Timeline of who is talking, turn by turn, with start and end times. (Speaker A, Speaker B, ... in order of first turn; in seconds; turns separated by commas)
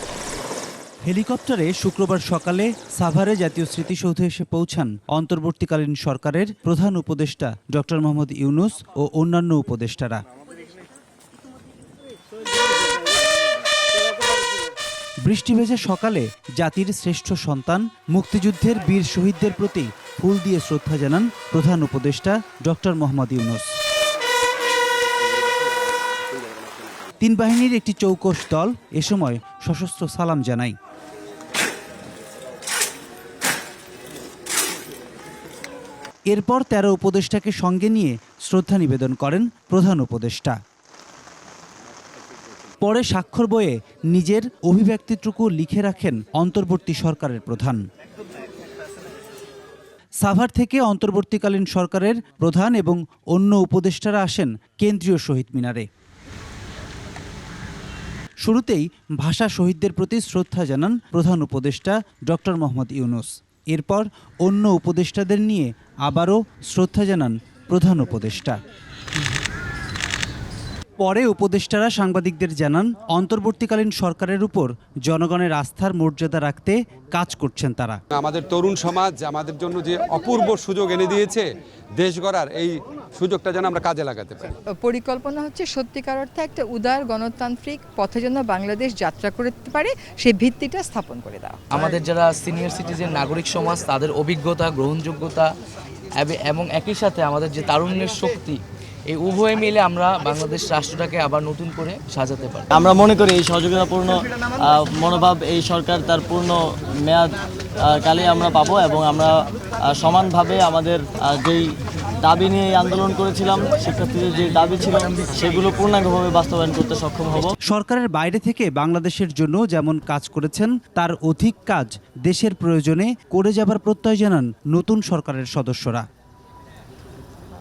Speaker A: 1.1-10.2, Speaker A: 15.2-23.7, Speaker A: 27.2-30.8, Speaker A: 36.3-40.6, Speaker A: 42.8-47.8, Speaker A: 50.2-55.9, Speaker A: 58.4-68.6, Speaker A: 71.0-78.0, Speaker B: 78.1-84.6, Speaker C: 84.7-91.6, Speaker D: 91.7-95.5, Speaker D: 96.2-102.7, Speaker E: 102.7-111.7, Speaker E: 112.2-117.5, Speaker A: 117.7-126.1